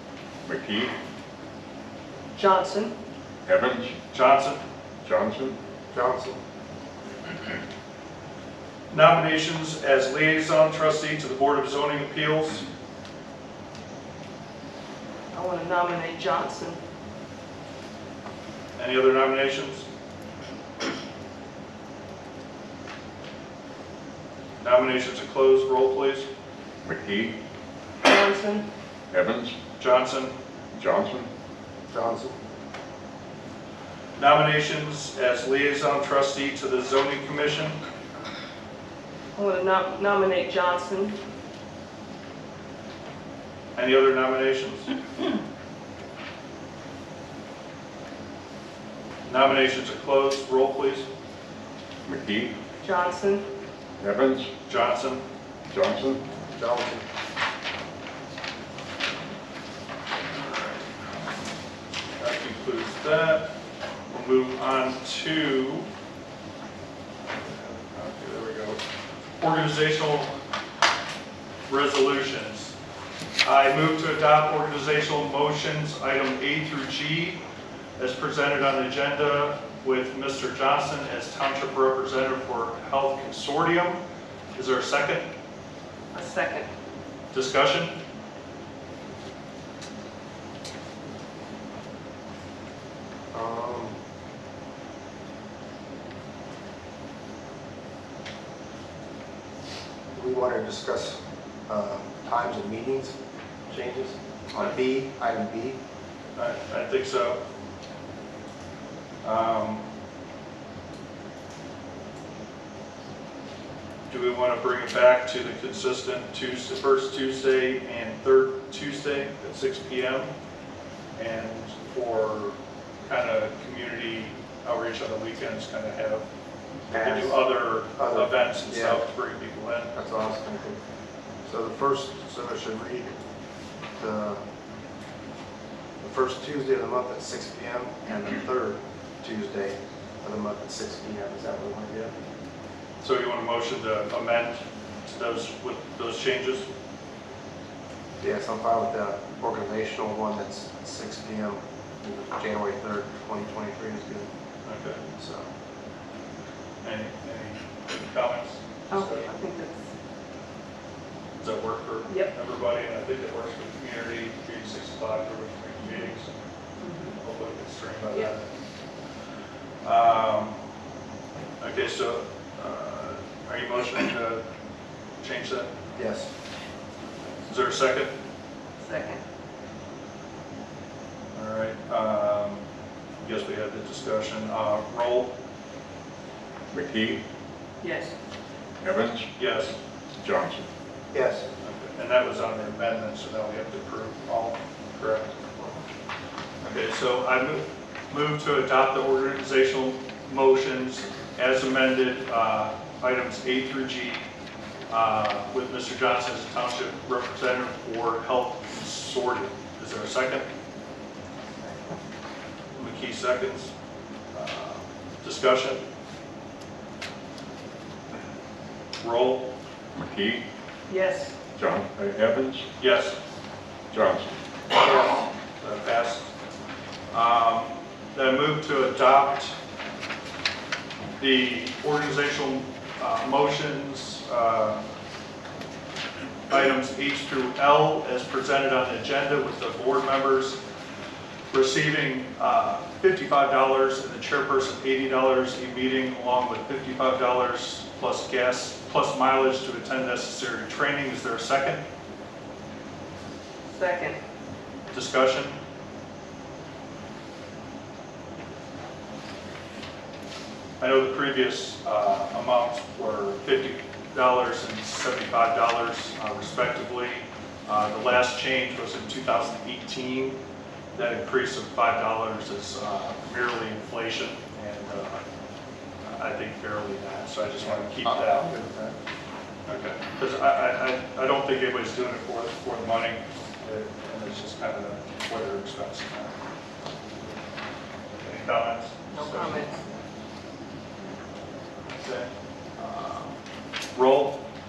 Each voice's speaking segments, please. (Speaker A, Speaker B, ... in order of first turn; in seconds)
Speaker A: 0.5-0.9, 3.5-3.9, 5.0-5.6, 26.9-27.4, 29.1-29.6, 30.8-31.3, 52.1-52.5, 54.0-54.5, 55.7-56.2, 186.7-187.2, 188.8-189.3, 190.2-190.7, 219.9-220.4, 221.6-222.7, 223.9-224.3
Speaker B: 2.4-2.9, 15.3-16.8, 28.0-28.7, 39.4-41.2, 52.8-53.5, 86.1-86.7, 158.9-159.9, 166.8-167.2, 178.8-179.2, 187.8-188.1, 220.9-221.3, 253.7-254.2, 289.1-289.8
Speaker C: 4.1-4.6, 8.9-12.7, 18.8-19.9, 24.6-26.3, 29.8-30.3, 34.2-37.8, 43.8-44.9, 49.3-51.1, 54.7-55.2, 62.2-63.5, 64.1-65.9, 67.3-68.8, 69.4-70.4, 71.7-72.7, 73.4-77.4, 78.0-84.0, 84.5-85.3, 87.3-88.0, 106.4-107.4, 109.2-109.8, 114.1-120.3, 121.2-126.3, 126.9-129.9, 143.0-146.7, 154.7-155.0, 156.8-159.3, 161.4-166.4, 167.2-168.5, 169.8-170.6, 171.6-174.4, 175.2-175.9, 177.4-178.1, 181.3-182.6, 183.2-185.3, 189.4-189.8, 191.6-195.3, 196.6-204.3, 204.9-210.5, 212.8-213.7, 214.3-215.8, 219.0-219.5, 222.8-223.2, 225.6-226.3, 227.1-229.6, 231.2-234.8, 236.5-240.6, 241.5-251.8, 254.9-255.6, 260.8-270.4, 270.9-275.2, 276.0-278.5, 279.7-286.4, 288.2-289.7, 291.9-293.4, 293.9-294.4
Speaker D: 5.9-6.4, 31.9-32.4, 56.5-57.0, 93.3-94.0, 100.1-103.2, 103.7-105.8, 126.9-127.4, 128.0-129.0, 129.9-130.8, 131.4-133.2, 134.0-134.4, 136.0-142.2, 148.2-154.3, 155.2-155.5, 176.0-176.3, 191.1-191.5, 277.6-278.9